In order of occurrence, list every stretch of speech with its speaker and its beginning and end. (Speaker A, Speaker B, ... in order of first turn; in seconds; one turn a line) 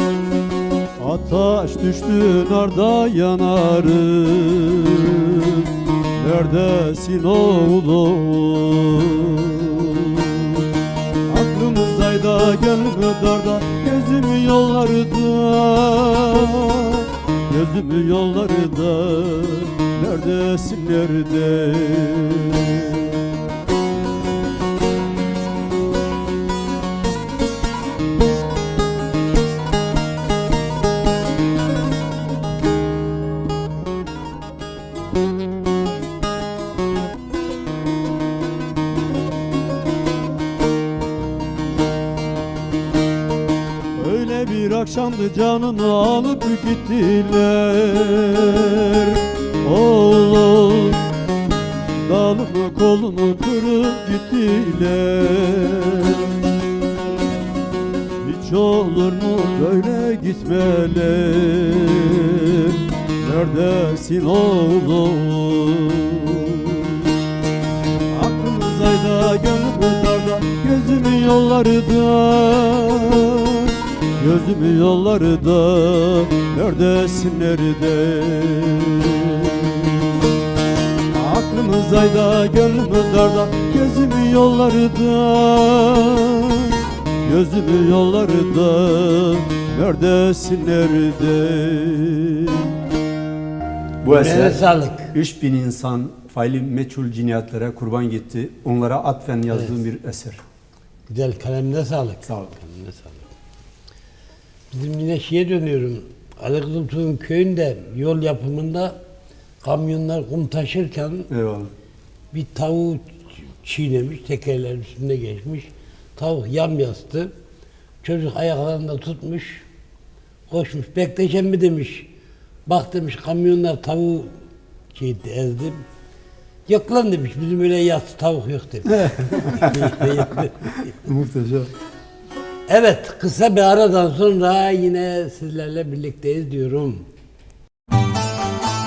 Speaker A: 1.0-10.7
Speaker A: 11.3-23.2
Speaker A: 44.0-51.1
Speaker A: 52.0-56.4
Speaker A: 58.2-67.1
Speaker A: 68.1-80.1
Speaker A: 81.1-92.7
Speaker B: 94.0-100.4
Speaker C: 94.1-95.1
Speaker C: 101.1-103.3
Speaker B: 102.3-102.5
Speaker C: 104.7-109.0
Speaker C: 109.6-111.3
Speaker B: 111.3-111.7
Speaker C: 112.3-117.3
Speaker C: 118.0-119.7
Speaker C: 120.5-122.1
Speaker C: 122.7-124.3
Speaker C: 124.9-125.8
Speaker C: 126.7-131.0
Speaker B: 129.1-129.8
Speaker B: 131.1-131.7
Speaker C: 132.7-137.1